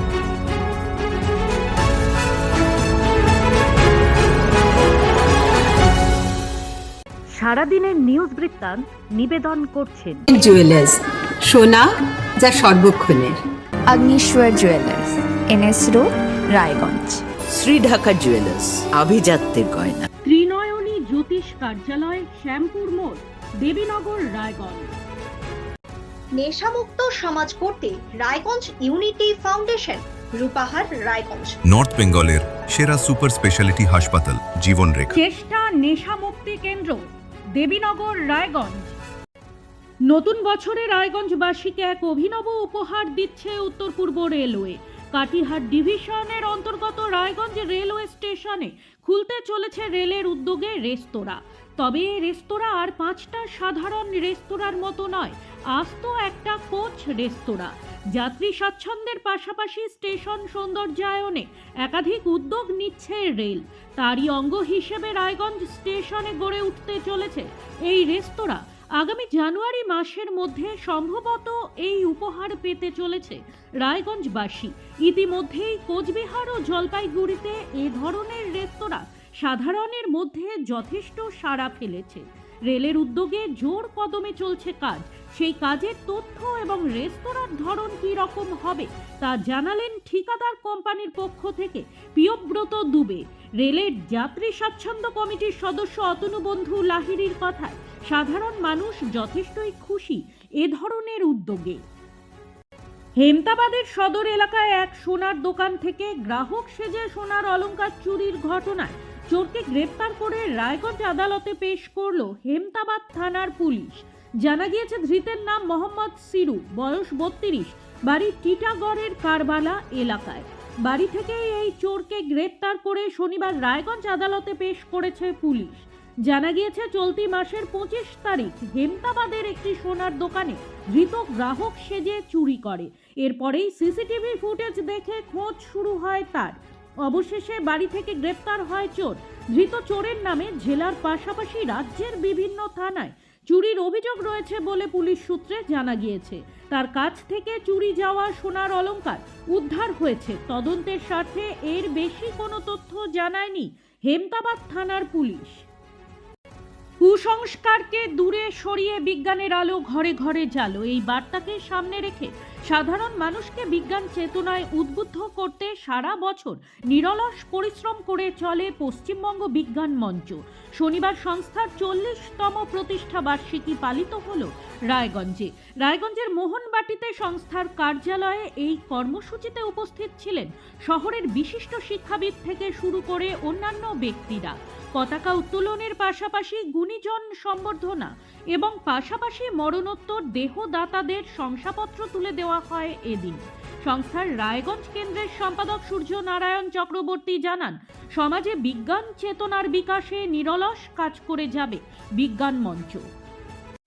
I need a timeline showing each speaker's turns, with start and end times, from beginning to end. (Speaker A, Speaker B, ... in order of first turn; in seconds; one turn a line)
Speaker A: 7.3-10.2
Speaker B: 10.3-13.4
Speaker C: 13.9-17.2
Speaker D: 17.5-20.1
Speaker A: 20.2-24.9
Speaker E: 26.3-31.6
Speaker F: 31.7-35.1
Speaker A: 35.1-39.0
Speaker A: 40.0-101.8
Speaker A: 103.2-155.7
Speaker A: 157.0-203.1